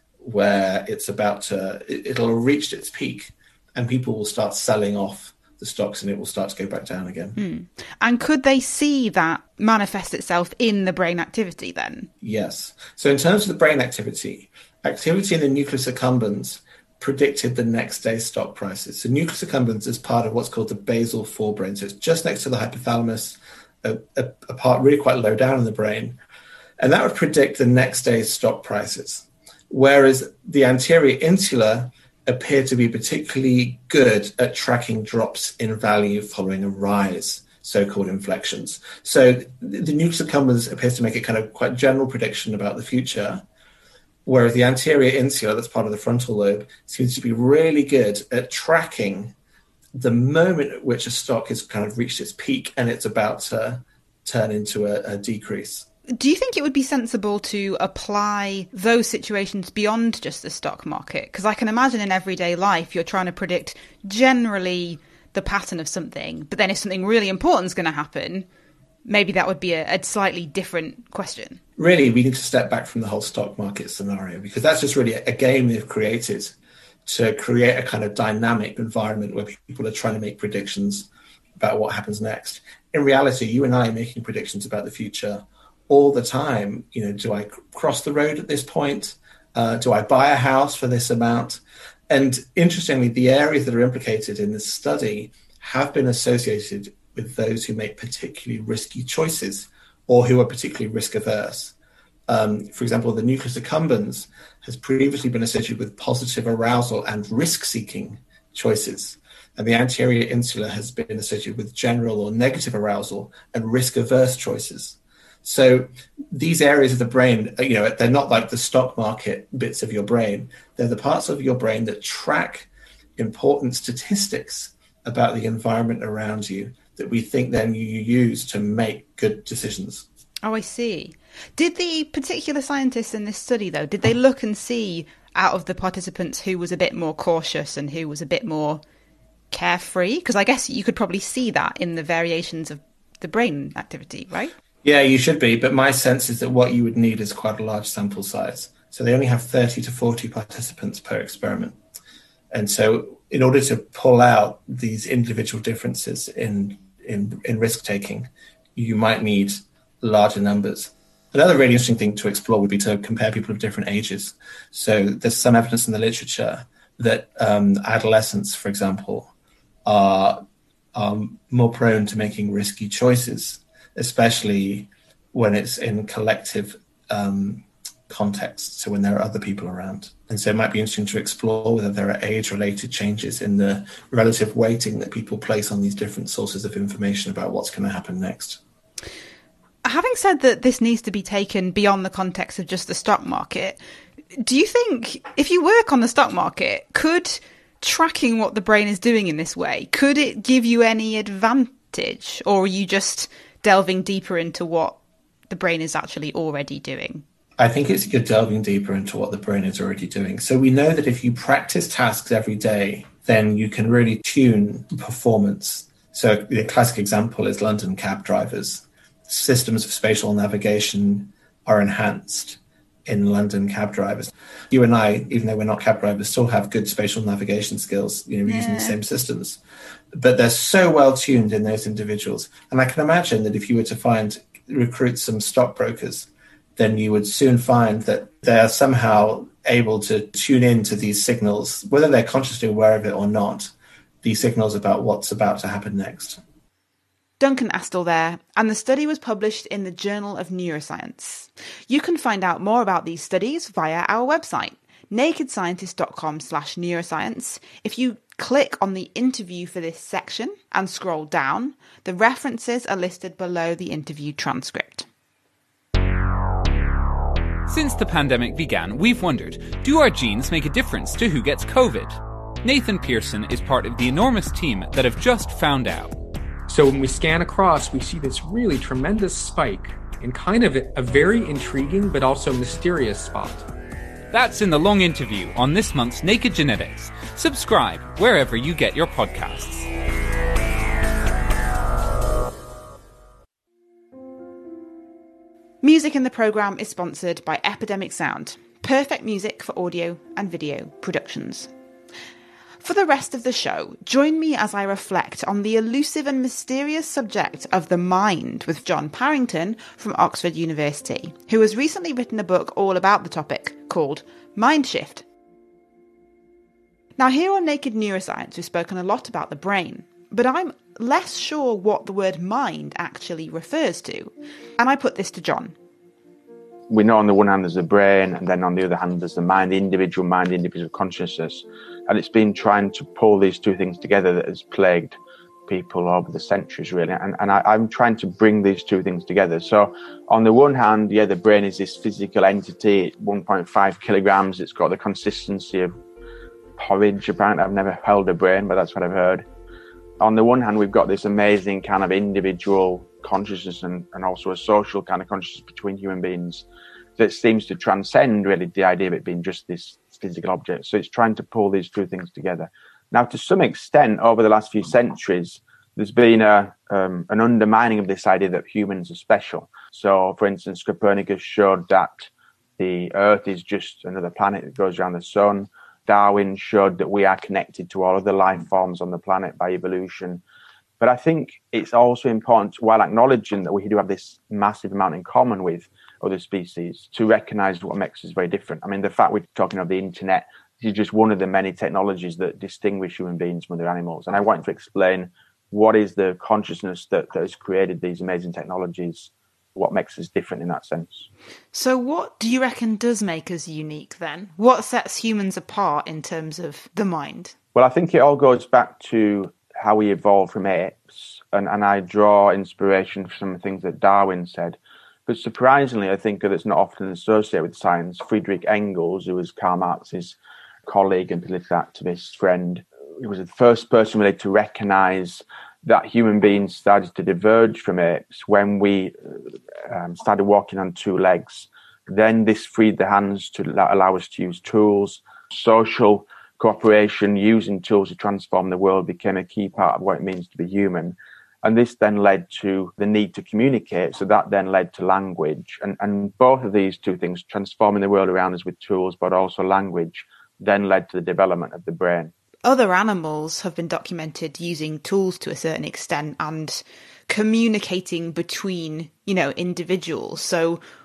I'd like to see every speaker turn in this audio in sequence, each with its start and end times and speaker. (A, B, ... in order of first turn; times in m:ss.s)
0:00.2-0:07.4 A
0:07.4-0:12.1 B
0:12.2-0:26.2 A
0:26.8-0:43.4 A
0:44.2-0:49.3 A
0:49.9-0:55.9 A
0:56.1-1:08.5 B
1:09.1-1:11.6 B
1:11.8-1:41.7 A
1:42.3-2:10.1 A
2:10.4-2:18.8 B
2:19.5-2:24.5 B
2:24.8-2:31.8 A
2:32.5-2:49.3 A
2:49.9-2:50.4 A
2:51.0-3:08.6 A
3:09.8-3:13.8 B
3:14.4-3:25.0 B
3:25.5-3:27.2 B
3:27.6-3:49.6 A
3:48.5-3:49.0 B
3:50.1-4:03.7 A
4:04.2-4:06.4 A
4:07.4-4:25.1 B
4:27.7-4:36.2 C
4:36.7-4:43.7 D
4:44.3-4:49.9 C
4:55.8-5:01.7 B
5:02.8-5:15.2 B
5:17.2-5:25.8 B
5:26.9-5:45.9 E
5:46.8-5:49.4 E
5:50.2-5:56.6 E
5:57.2-6:20.4 E
6:21.0-6:41.3 E
6:41.7-6:47.6 B
6:47.8-7:09.4 E
7:09.9-7:32.3 E
7:32.6-7:40.8 B